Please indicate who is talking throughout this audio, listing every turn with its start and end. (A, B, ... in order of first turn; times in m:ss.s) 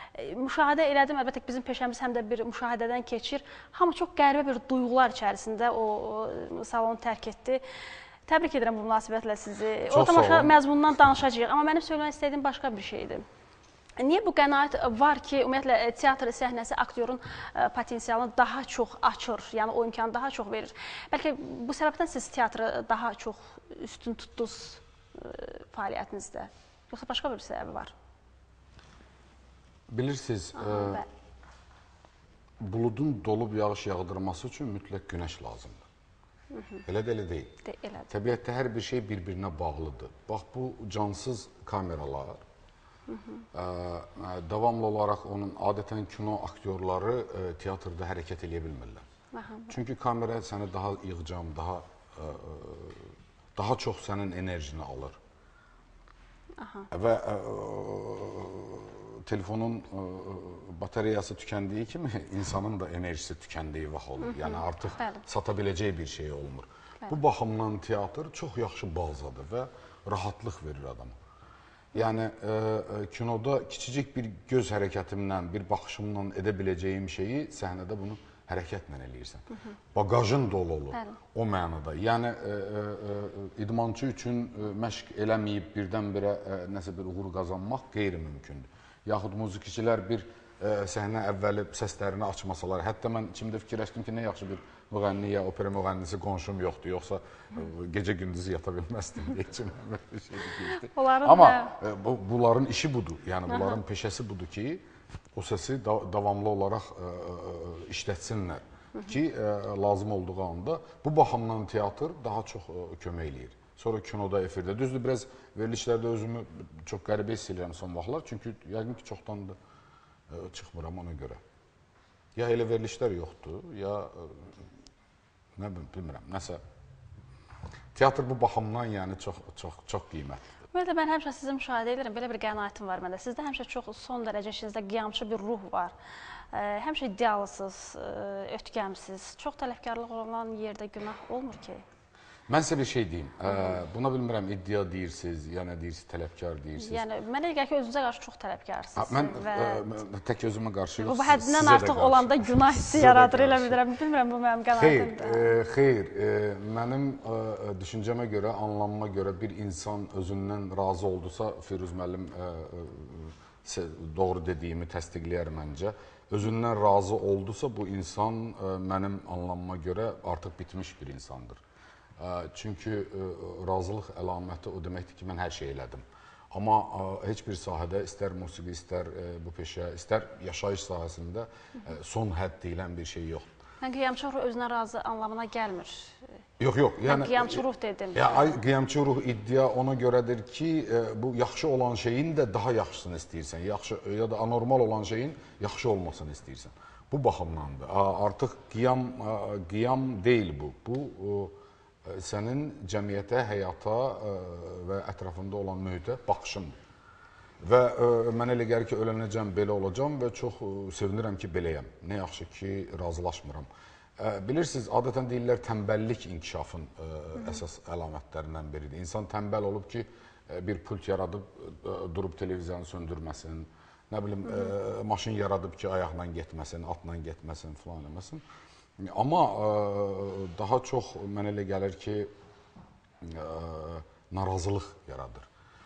0:00.1-0:07.6 A
0:08.3-0:13.2 A
0:09.9-0:10.6 B
0:14.0-0:27.9 A
0:29.9-0:31.0 B
0:30.6-0:31.1 A
0:32.6-0:35.8 B
0:36.5-0:36.8 A
0:36.9-0:37.5 B
0:37.6-0:38.1 A
0:38.1-0:42.4 B
0:43.1-0:43.4 A
0:43.5-0:49.0 B
0:49.3-0:49.8 A
0:49.7-0:55.2 B
0:56.6-0:56.9 A
0:56.9-1:11.2 B
1:04.2-1:05.2 A
1:12.0-1:44.8 B
1:20.9-1:21.2 A
1:40.8-1:41.7 A
1:43.5-1:43.8 A
1:45.4-1:59.6 B
2:00.3-2:01.4 B
2:02.4-2:04.5 B
2:05.6-2:06.6 B
2:08.0-2:10.4 B
2:10.7-2:15.9 A
2:16.5-2:21.8 A
2:22.5-2:27.0 B
2:23.5-2:23.8 A
2:26.8-2:29.9 A
2:29.0-2:33.8 B
2:31.0-2:35.5 A
2:34.7-2:51.6 B
2:52.2-3:03.5 B
3:03.8-3:06.2 A
3:06.6-3:21.6 B
3:07.1-3:08.5 A
3:22.1-3:26.7 B
3:27.6-3:33.7 B
3:34.2-3:48.4 B
3:37.4-3:37.6 A
3:44.4-3:44.7 A
3:49.0-3:52.3 B
3:53.2-3:55.5 B